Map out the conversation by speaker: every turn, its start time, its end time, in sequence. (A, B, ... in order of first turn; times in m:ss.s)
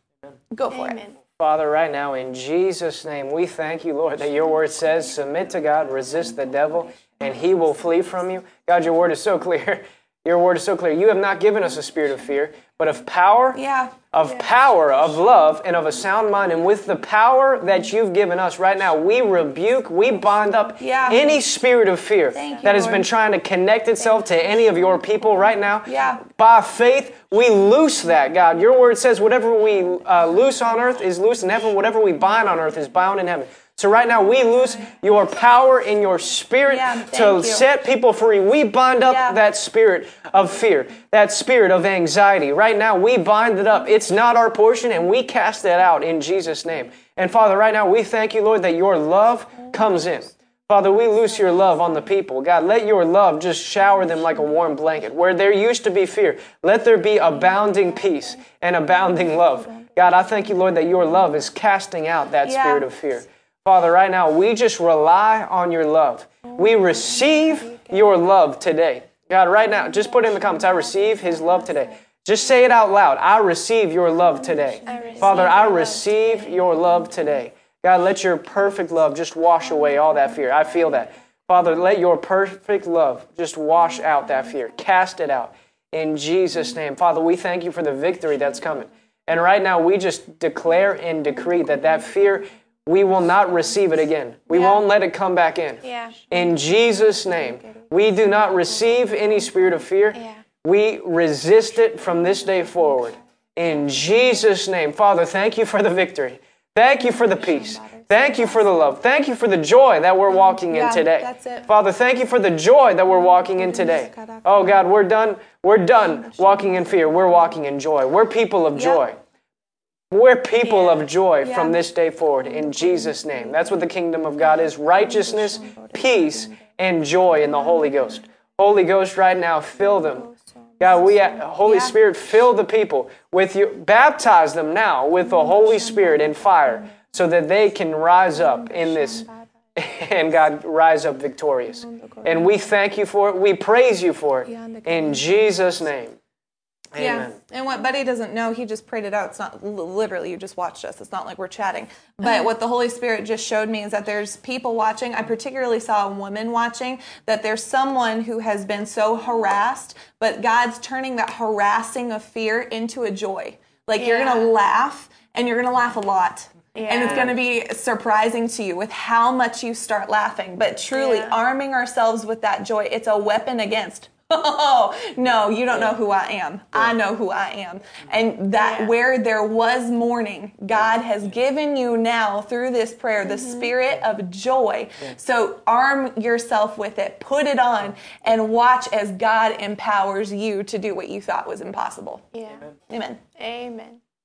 0:00.5-0:01.0 A
0:00.7-0:01.1 B
0:01.4-1:59.2 C
0:13.5-0:14.0 A
0:20.8-0:21.2 A
0:22.3-0:23.0 A
0:22.4-0:22.9 B
0:25.8-0:26.2 A
0:36.7-0:37.6 A
0:39.0-0:39.4 A
0:58.1-0:58.4 A
0:59.0-0:59.9 A
1:02.4-1:02.9 A
1:06.4-1:08.1 A
1:09.8-1:11.9 A
1:14.7-1:15.5 A
1:14.8-1:16.5 B
1:34.5-1:34.8 B
1:35.8-1:36.2 B
1:37.2-1:37.9 A
1:40.1-1:40.4 B
1:47.2-1:48.9 A
1:50.7-1:51.7 A
1:53.5-1:54.8 A
1:56.0-1:57.2 A
1:58.7-1:59.0 A
2:00.1-2:10.3 C
2:00.6-2:01.1 B
2:01.4-2:01.8 A
2:02.4-2:03.8 A
2:05.0-2:06.6 A
2:09.8-2:12.0 A
2:10.8-2:26.2 C
2:15.2-2:16.9 A
2:18.4-2:19.5 A
2:21.8-2:22.5 A
2:24.5-2:25.3 A
2:26.9-2:27.4 C
2:27.0-3:12.2 A
2:44.0-2:44.5 B
2:46.7-2:47.3 B
2:50.9-2:51.4 B
2:58.6-2:58.9 B
3:03.2-3:03.7 B
3:12.3-3:12.6 B
3:12.9-3:13.2 A
3:13.4-3:14.0 B